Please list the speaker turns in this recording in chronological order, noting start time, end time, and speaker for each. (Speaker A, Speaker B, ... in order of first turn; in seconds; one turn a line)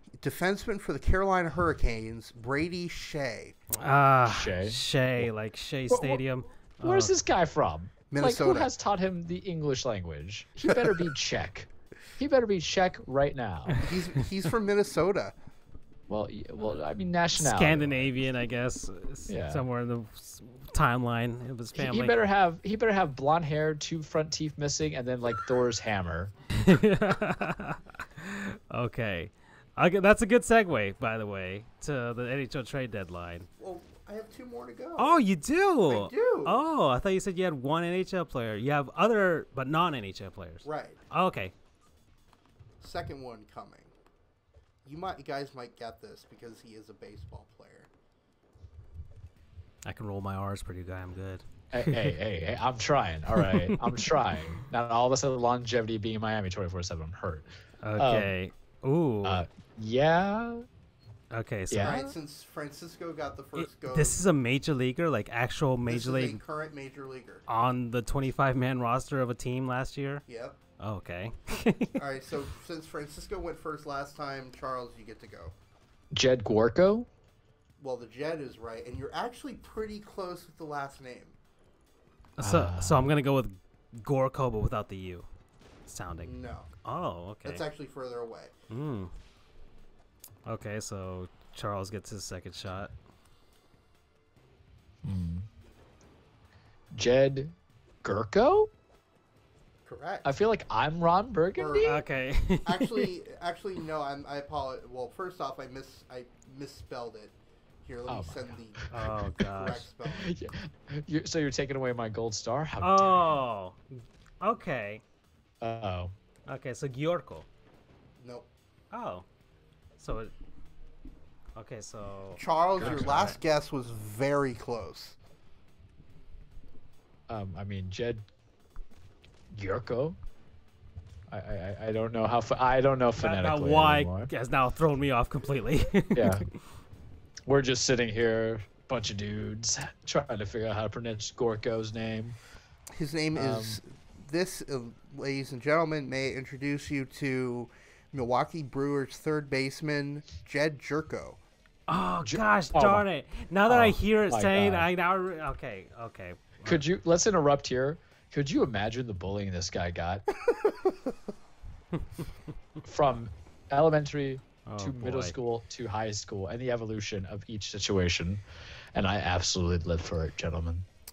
Speaker A: 0.2-3.6
Speaker B: 3.7-7.2
Speaker C: 4.3-5.3
Speaker C: 5.9-6.2
Speaker C: 6.8-13.9
Speaker A: 8.1-8.7
Speaker A: 13.8-15.3
Speaker C: 16.1-18.2
Speaker B: 17.4-22.2
Speaker C: 19.3-19.6
Speaker C: 21.7-26.7
Speaker B: 26.5-33.5
Speaker A: 33.6-35.2
Speaker B: 35.0-41.5
Speaker A: 35.9-36.6
Speaker A: 40.6-41.0
Speaker A: 42.8-43.9
Speaker A: 44.9-47.9
Speaker B: 49.9-52.1
Speaker C: 51.7-58.3
Speaker B: 53.4-54.6
Speaker B: 57.8-59.5
Speaker C: 59.2-60.6
Speaker B: 61.3-62.0
Speaker C: 61.7-62.1
Speaker A: 61.8-64.2
Speaker B: 63.6-66.4
Speaker A: 65.9-67.5
Speaker B: 67.5-70.2
Speaker A: 70.3-70.6
Speaker B: 70.8-72.0
Speaker A: 72.0-75.5
Speaker C: 76.1-77.1
Speaker A: 77.8-81.4
Speaker B: 82.4-85.3
Speaker C: 82.4-83.1
Speaker B: 85.9-87.7
Speaker A: 86.2-86.7
Speaker A: 87.4-88.5
Speaker B: 88.7-89.1
Speaker B: 90.5-92.9
Speaker C: 95.0-95.5
Speaker C: 96.9-98.7
Speaker A: 99.9-100.3
Speaker C: 100.2-102.0
Speaker A: 101.6-102.0
Speaker B: 101.8-103.1
Speaker A: 102.6-110.4
Speaker C: 108.1-109.3
Speaker B: 108.9-109.9
Speaker C: 110.1-113.4
Speaker B: 112.8-115.0
Speaker C: 115.6-116.1
Speaker B: 116.5-117.5
Speaker A: 118.2-118.5
Speaker B: 118.9-119.2
Speaker B: 120.0-120.3
Speaker B: 121.6-123.4
Speaker A: 122.4-125.2
Speaker C: 122.8-123.1
Speaker C: 127.3-128.3
Speaker C: 129.5-130.2
Speaker C: 131.3-134.3
Speaker B: 133.2-136.6
Speaker C: 136.1-136.4
Speaker C: 137.5-142.4
Speaker A: 142.9-151.4
Speaker C: 143.3-143.8
Speaker B: 151.9-156.8
Speaker C: 152.2-153.1
Speaker C: 153.7-154.9
Speaker C: 156.7-160.3
Speaker A: 160.4-161.0
Speaker C: 162.8-168.4
Speaker B: 164.7-165.4
Speaker C: 168.9-170.9